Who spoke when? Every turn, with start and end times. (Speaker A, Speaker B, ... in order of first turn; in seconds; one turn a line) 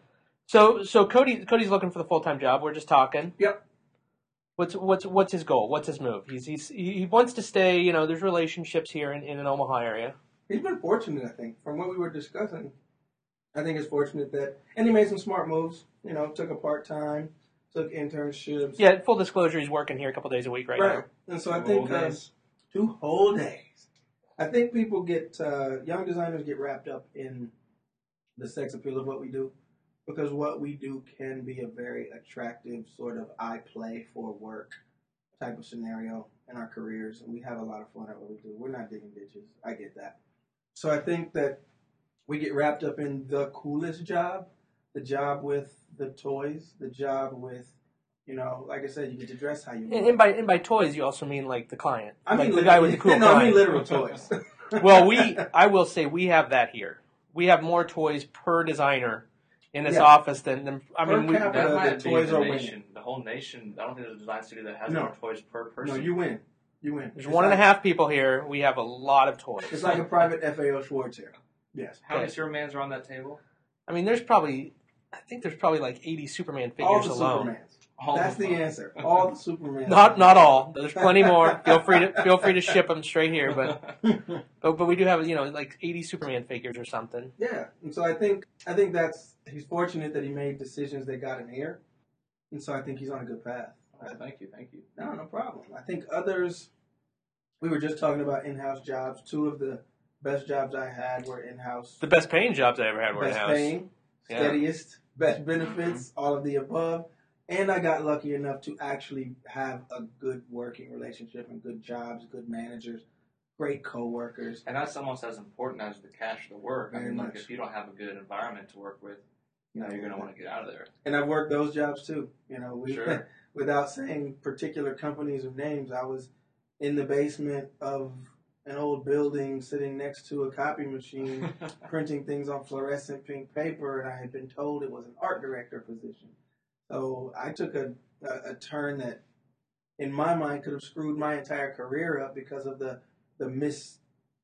Speaker A: 0.5-3.3
Speaker A: 4.6-10.2
Speaker B: 10.5-12.7
Speaker B: 13.5-18.8
Speaker A: 18.8-21.0
Speaker B: 20.8-22.2
Speaker C: 21.5-22.3
Speaker B: 22.7-27.5
Speaker B: 28.4-29.5
Speaker B: 30.1-34.8
Speaker B: 35.4-40.2
Speaker B: 40.7-41.6
Speaker B: 42.3-47.7
Speaker B: 48.2-50.2
Speaker A: 49.9-53.8
Speaker B: 52.2-55.4
Speaker A: 54.8-61.7
Speaker B: 59.8-60.1
Speaker B: 61.0-62.7
Speaker C: 61.4-66.1
Speaker B: 64.9-65.1
Speaker B: 65.8-67.6
Speaker A: 67.2-70.0
Speaker B: 69.7-72.0
Speaker C: 72.0-73.4
Speaker A: 73.9-77.5
Speaker B: 76.8-82.7
Speaker C: 78.0-79.1
Speaker A: 79.8-83.8
Speaker C: 83.7-83.9
Speaker B: 84.0-84.4
Speaker A: 84.6-87.3
Speaker B: 87.4-91.8
Speaker B: 92.5-94.2
Speaker C: 94.0-94.8
Speaker B: 95.0-96.7
Speaker B: 97.6-102.0
Speaker A: 102.0-103.8
Speaker B: 103.1-113.0
Speaker A: 104.3-104.6
Speaker C: 105.7-106.0
Speaker B: 113.6-114.6
Speaker C: 114.7-119.2
Speaker B: 116.9-117.5
Speaker B: 119.7-120.3
Speaker C: 119.8-120.9
Speaker B: 121.0-136.3
Speaker C: 122.8-123.2
Speaker B: 136.9-139.2
Speaker B: 140.0-144.0